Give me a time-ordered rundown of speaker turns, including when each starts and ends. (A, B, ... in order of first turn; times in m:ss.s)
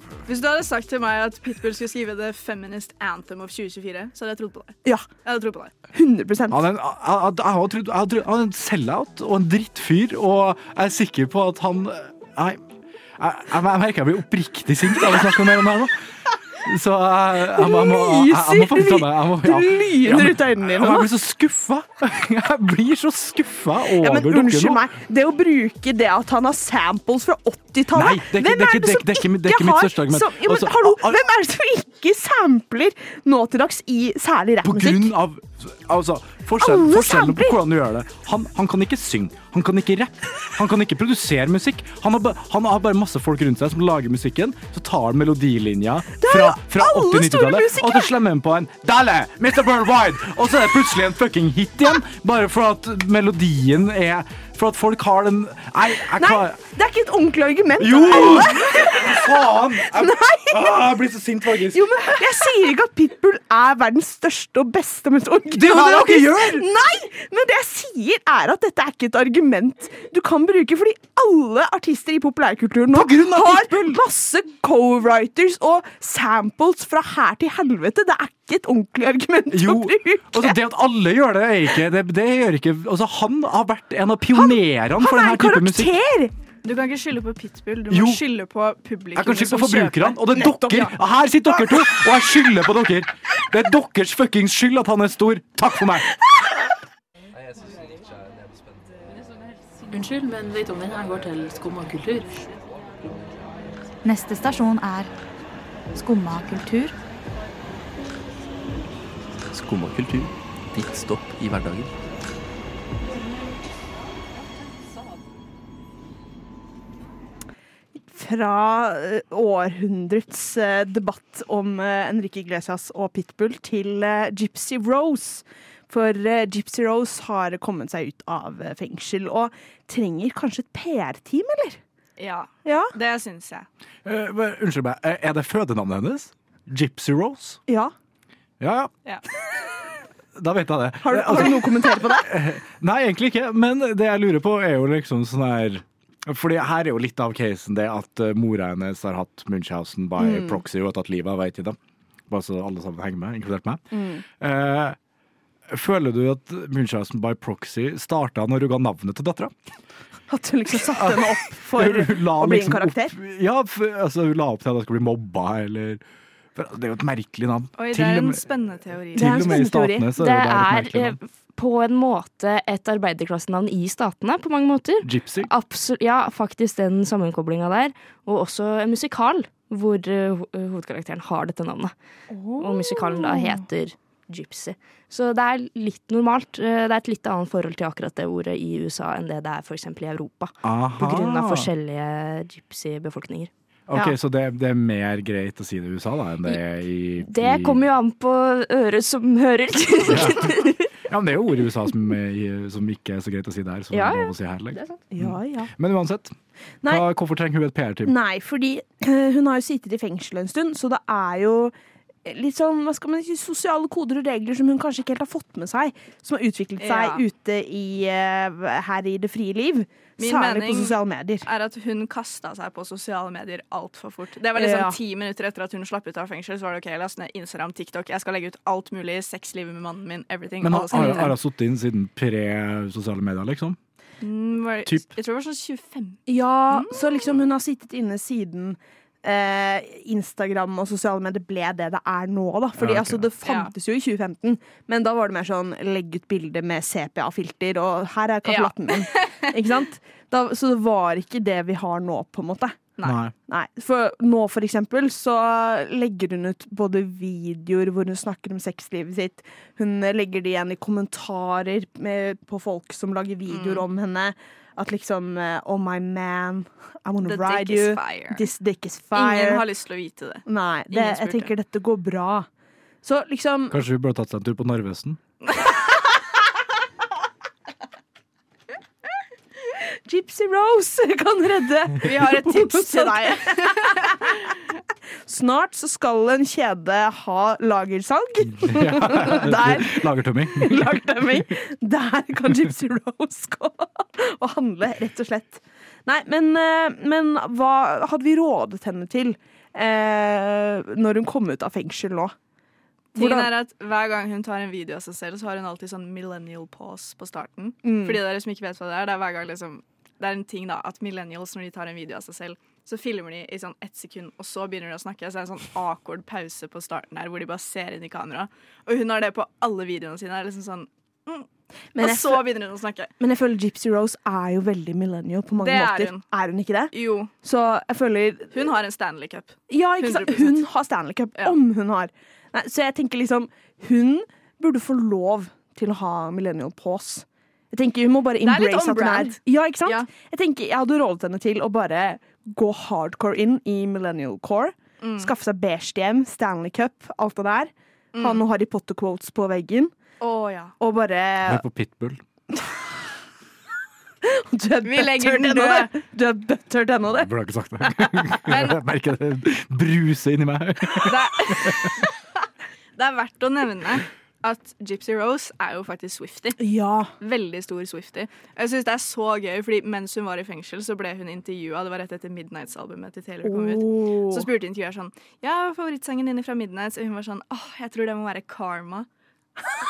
0:00.2-0:05.7 A
0:05.9-0:06.6 B
0:06.5-0:12.6 C
0:13.2-0:15.9 C
0:16.6-0:24.8 C
0:17.5-0:21.1 B
0:24.0-0:35.1 B
0:27.9-0:31.2 C
0:34.6-0:56.6 C
0:36.6-0:37.6 B
0:46.2-0:48.1 B
0:56.2-1:00.8 B
0:57.8-1:02.2 C
1:01.7-1:20.6 B
1:05.5-1:06.7 C
1:12.9-1:14.0 C
1:19.5-1:25.9 C
1:24.3-1:26.3 B
1:26.6-1:30.2 A
1:27.9-1:28.2 C
1:29.1-1:36.1 C
1:30.4-1:30.9 B
1:39.9-1:42.5 D
1:44.0-1:45.1 E
1:45.9-1:46.9 E
1:49.5-1:51.9 F
1:58.1-2:11.8 B
2:12.2-2:13.7 A
2:12.6-2:12.9 B
2:14.0-2:17.6 C
2:17.7-2:17.9 B
2:18.6-2:18.9 C
2:20.4-2:31.8 C
2:21.0-2:22.3 B
2:30.2-2:30.6 B
2:32.3-2:33.8 C
2:33.9-2:34.2 B
2:34.4-2:35.0 C
2:35.7-2:39.5 C
2:40.3-2:43.1 B
2:41.0-2:41.2 C
2:41.8-2:46.0 C
2:46.5-2:48.4 C
2:47.8-2:49.3 A
2:49.1-2:51.2 C
2:49.1-2:50.1 B
2:50.2-3:01.9 G
2:55.0-2:55.5 C
3:02.3-3:03.6 B
3:02.6-3:13.5 G
3:10.6-3:11.7 C
3:13.9-3:17.8 C
3:17.2-3:20.8 G
3:20.1-3:20.5 C
3:21.1-3:26.3 C
3:23.9-3:24.3 G
3:25.1-3:25.7 B
3:26.9-3:28.1 C
3:28.0-3:31.7 B
3:32.2-3:41.4 B
3:36.8-3:37.2 A
3:40.2-3:51.3 A
3:44.5-3:45.0 B
3:50.6-3:53.8 C
3:54.2-3:57.3 A
3:54.8-3:55.1 C
3:56.3-4:12.9 B
4:02.8-4:03.2 C
4:03.4-4:03.7 A
4:08.5-4:09.5 A
4:13.0-4:13.3 C
4:13.5-4:29.6 B
4:23.5-4:23.8 A
4:27.2-4:28.5 A
4:29.1-4:31.5 A
4:30.5-4:32.5 B
4:33.0-4:33.8 B
4:33.7-4:35.2 C
4:35.4-4:35.7 A
4:40.0-4:44.3 B
4:42.0-4:44.6 A
4:45.3-5:02.3 B
4:48.6-4:51.0 C
5:03.1-5:03.5 B
5:03.1-5:23.1 A
5:07.8-5:08.2 B
5:22.0-5:22.5 B
5:23.2-5:26.9 B
5:25.6-5:26.2 A
5:26.9-5:27.3 A
5:27.4-5:28.7 B
5:28.5-5:30.6 A
5:29.7-5:49.9 B
5:38.4-5:40.1 A
5:45.0-5:45.3 A
5:48.1-5:48.4 A
5:50.2-5:50.7 A
5:50.8-5:51.6 B
5:51.5-5:52.2 C
5:52.5-5:52.9 B
5:54.2-5:57.3 B
5:54.8-5:55.9 A
5:57.1-6:01.9 C
5:58.5-5:58.8 A
6:01.0-6:02.2 A
6:03.0-6:06.6 A
6:06.6-6:07.1 B
6:07.2-6:19.1 A
6:13.4-6:14.5 B